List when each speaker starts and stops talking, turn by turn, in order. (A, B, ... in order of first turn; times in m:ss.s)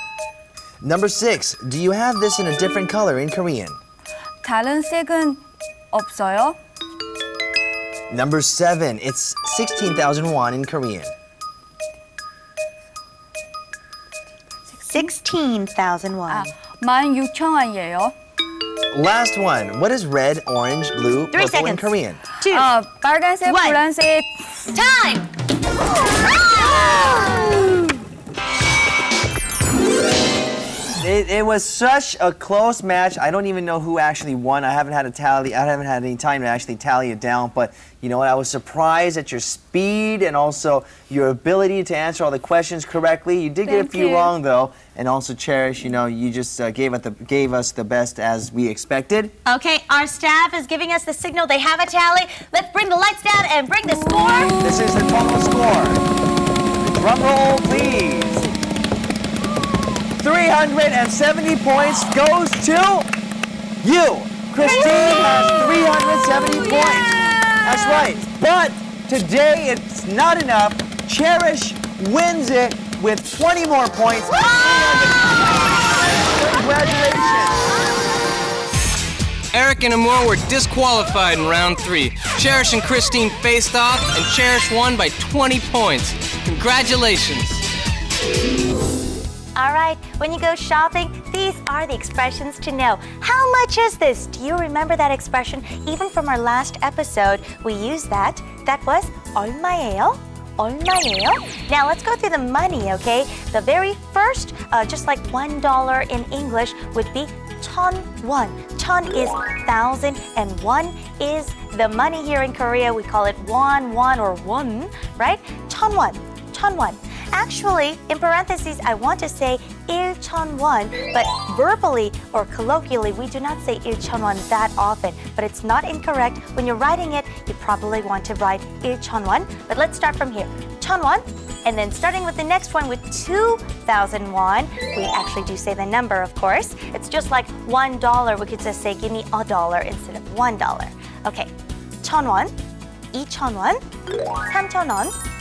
0:00.8-0:03.8 A
0:04.4-0:05.4 B
0:05.9-0:06.6 B
0:08.1-0:11.1 A
0:14.8-0:16.5 C
0:16.3-0:18.1 B
0:18.9-0:22.2 A
0:21.3-0:22.7 C
0:22.5-0:24.6 B
0:23.4-0:23.8 C
0:24.7-0:25.3 C
0:26.1-0:27.8 C
0:31.0-0:49.3 A
0:43.8-0:44.3 B
0:49.4-0:54.5 C
0:54.6-0:56.0 A
0:56.8-0:58.5 A
1:00.2-1:03.1 A
1:03.8-1:17.7 A
1:19.5-1:27.6 D
1:29.6-2:21.5 C
2:22.0-2:22.5 C
2:23.1-2:23.8 C
2:24.4-2:25.1 C